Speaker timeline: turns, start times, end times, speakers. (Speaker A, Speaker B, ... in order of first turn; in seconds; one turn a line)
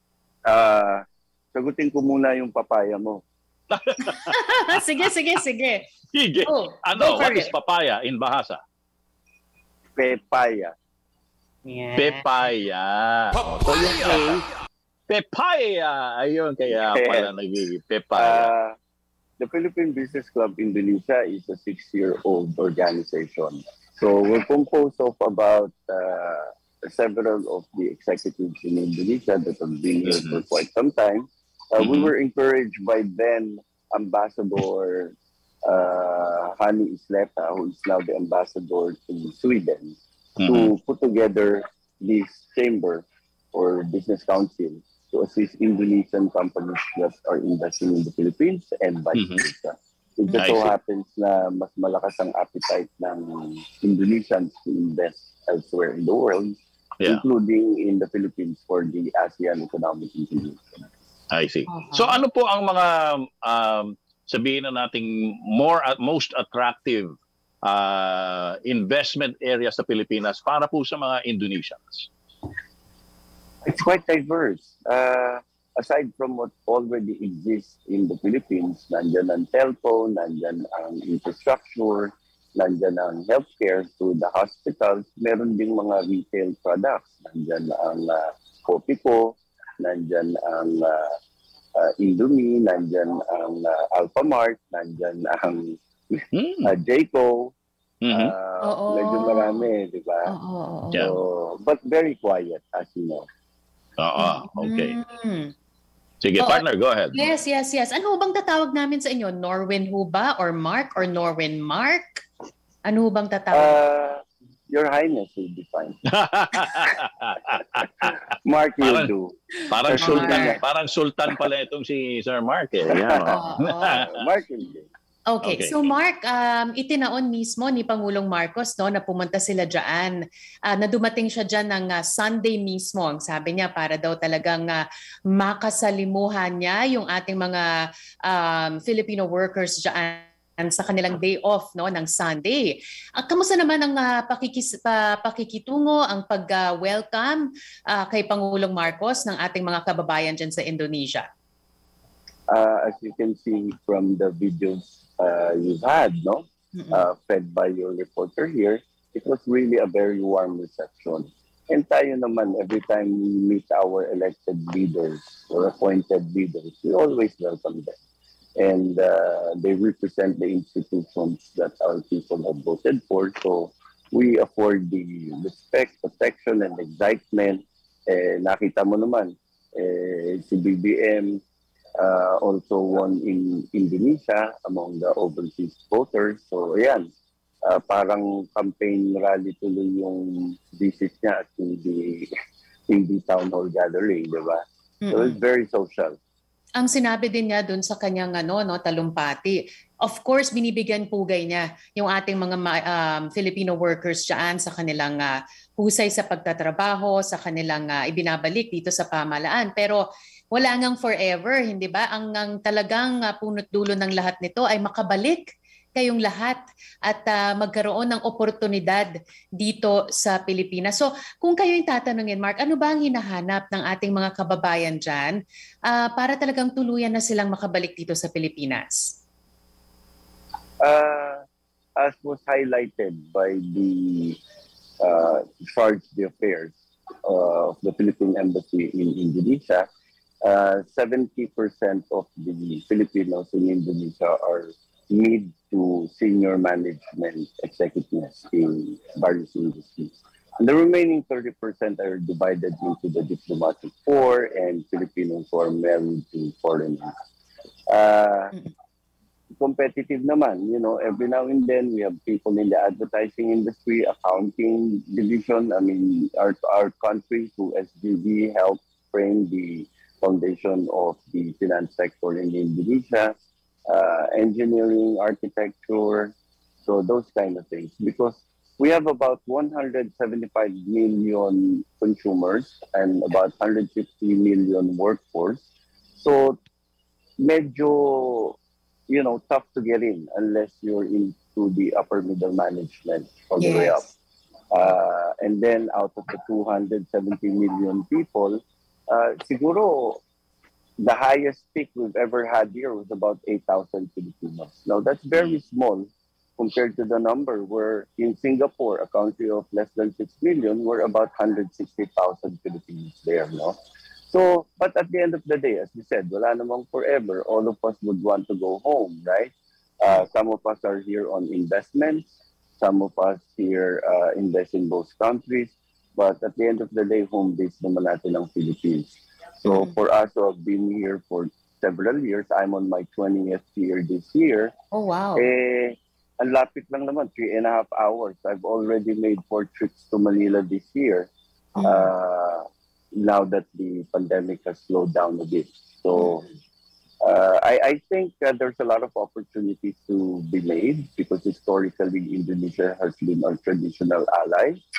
Speaker A: 0.5-1.0
Speaker A: 1.5-3.2
Speaker B: 3.7-4.3
Speaker C: 4.1-5.8
Speaker B: 6.1-8.6
Speaker C: 6.4-7.5
Speaker A: 9.9-10.7
Speaker C: 11.6-12.2
Speaker B: 12.0-14.4
Speaker B: 15.1-18.5
Speaker A: 16.7-17.3
Speaker A: 18.1-18.7
Speaker A: 19.4-35.1
Speaker B: 30.1-30.4
Speaker B: 31.8-32.1
Speaker A: 35.6-60.8
Speaker B: 40.4-40.7
Speaker B: 49.1-49.4
Speaker B: 50.4-50.7
Speaker B: 61.3-72.1
Speaker C: 61.7-62.2
Speaker A: 73.6-91.1
Speaker A: 91.8-97.5
Speaker B: 96.3-96.7
Speaker B: 98.0-98.3
Speaker A: 98.1-100.3
Speaker C: 98.6-99.7
Speaker C: 100.3-101.0
Speaker A: 101.0-103.3
Speaker B: 104.0-105.0
Speaker C: 104.2-105.5
Speaker B: 106.2-107.2
Speaker C: 106.4-112.2
Speaker C: 112.9-113.8
Speaker A: 113.5-116.0
Speaker B: 116.1-118.2
Speaker A: 118.4-120.6
Speaker B: 118.8-119.1
Speaker B: 119.7-124.1
Speaker C: 119.9-120.5
Speaker A: 122.9-123.3
Speaker C: 123.3-124.0
Speaker A: 123.9-124.9
Speaker C: 125.3-130.1
Speaker B: 125.4-125.9
Speaker C: 130.7-137.6
Speaker C: 138.3-142.6
Speaker C: 143.2-151.2
Speaker A: 152.5-168.0
Speaker C: 156.7-157.1
Speaker A: 168.6-181.4
Speaker A: 182.0-187.1
Speaker A: 187.6-192.3
Speaker A: 192.9-196.2
Speaker C: 195.0-195.4
Speaker C: 196.8-210.0
Speaker C: 210.5-215.4
Speaker C: 215.9-225.3
Speaker C: 225.9-229.1
Speaker A: 230.8-231.4
Speaker A: 232.0-234.4
Speaker A: 235.0-239.9
Speaker A: 240.4-257.1
Speaker A: 257.9-258.5
Speaker A: 259.6-273.4
Speaker A: 273.9-285.6
Speaker A: 286.2-286.6
Speaker A: 287.4-288.6
Speaker A: 289.1-294.0
Speaker C: 293.6-294.1
Speaker A: 294.7-300.2
Speaker A: 301.0-313.8
Speaker A: 314.3-334.7
Speaker C: 329.6-329.9
Speaker C: 334.9-335.5
Speaker A: 335.4-342.6
Speaker C: 341.8-342.1
Speaker A: 343.1-346.4
Speaker C: 346.1-346.4
Speaker A: 347.2-354.8